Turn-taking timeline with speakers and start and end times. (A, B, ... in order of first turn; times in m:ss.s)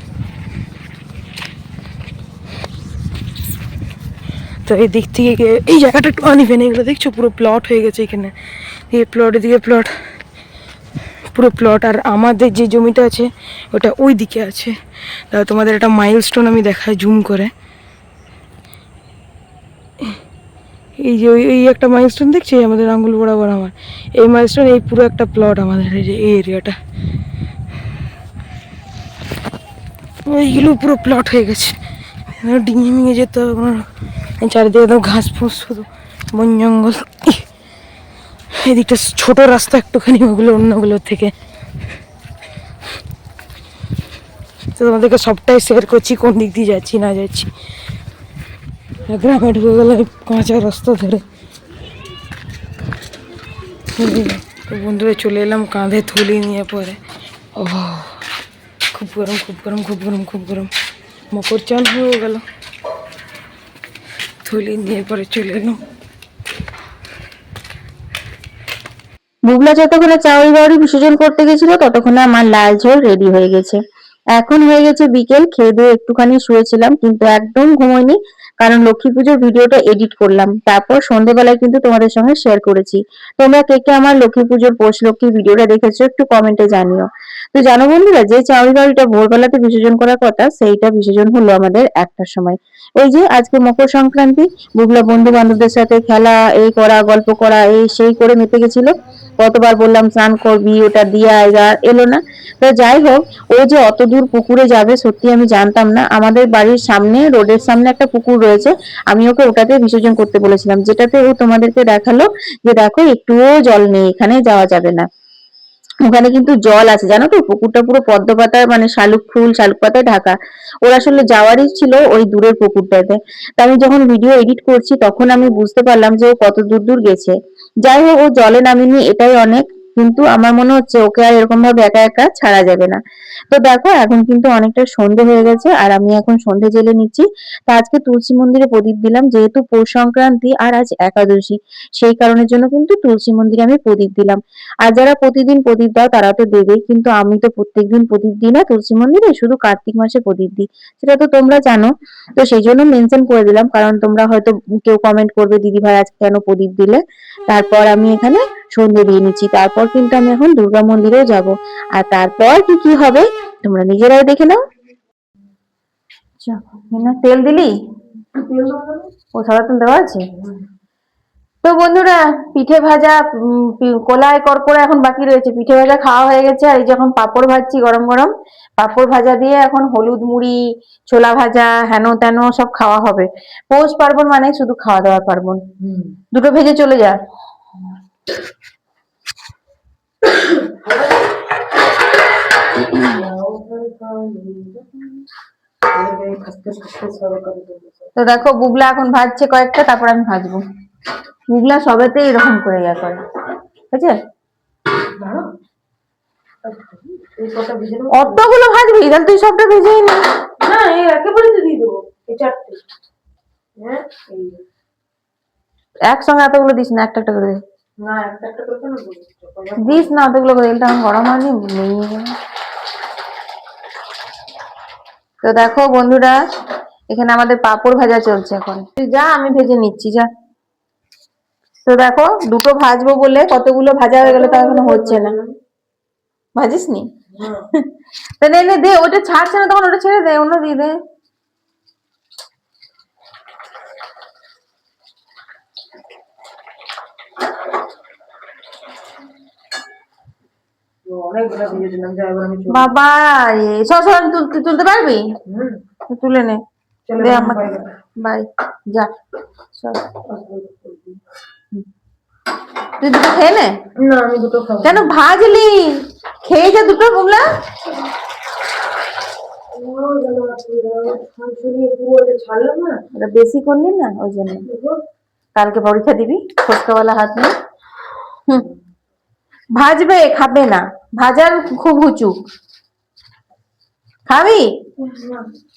0:04.6-0:08.3 A
0:08.9-0:09.9 A
0:11.3-0:14.7 A
0:15.3-0:17.5 A
0:21.0-0:26.8 A
0:30.2-0:31.8 A
0:32.3-0:33.9 A
0:34.4-0:37.4 A
0:38.5-0:41.3 A
0:44.8-0:47.5 A
0:49.0-0:51.2 A
0:53.9-0:57.0 A
0:57.6-0:58.2 A
0:58.9-1:00.7 A
1:01.3-1:02.4 A
1:04.4-1:05.8 A
1:09.5-1:13.8 B
1:14.3-1:55.1 B
1:56.1-2:44.6 B
2:46.4-2:47.7 B
2:48.4-2:49.1 A
2:49.3-2:50.2 B
2:51.6-3:05.6 B
3:06.3-3:07.2 B
3:10.4-3:11.2 A
3:12.8-3:15.2 A
3:15.9-3:18.1 A
3:18.2-3:20.6 B
3:21.5-3:23.2 B
3:23.9-3:24.2 B
3:25.1-3:25.4 A
3:26.6-3:28.5 A
3:28.1-3:30.3 B
3:30.6-3:32.8 A
3:33.8-3:34.6 A
3:36.1-3:37.6 B
3:38.0-3:40.1 A
3:39.8-3:42.3 B
3:45.4-3:46.4 B
3:47.1-3:50.3 B
3:51.8-3:55.3 B
3:54.2-3:55.5 A
3:56.6-3:57.1 B
3:57.4-3:57.6 A
3:58.4-4:01.0 B
4:11.1-4:12.9 A
4:12.7-4:15.3 B
4:15.5-4:15.8 A
4:16.1-4:16.6 B
4:17.1-4:18.0 A
4:17.2-4:19.1 B
4:19.7-4:20.0 B
4:20.2-4:21.2 A
4:23.0-4:23.7 B
4:24.0-4:25.1 A
4:24.8-4:27.4 B
4:29.7-4:33.0 A
4:33.1-4:34.6 B
4:34.7-4:35.0 A
4:35.6-4:37.5 B
4:39.8-4:42.4 B
4:44.3-4:44.7 B
4:45.0-4:45.5 A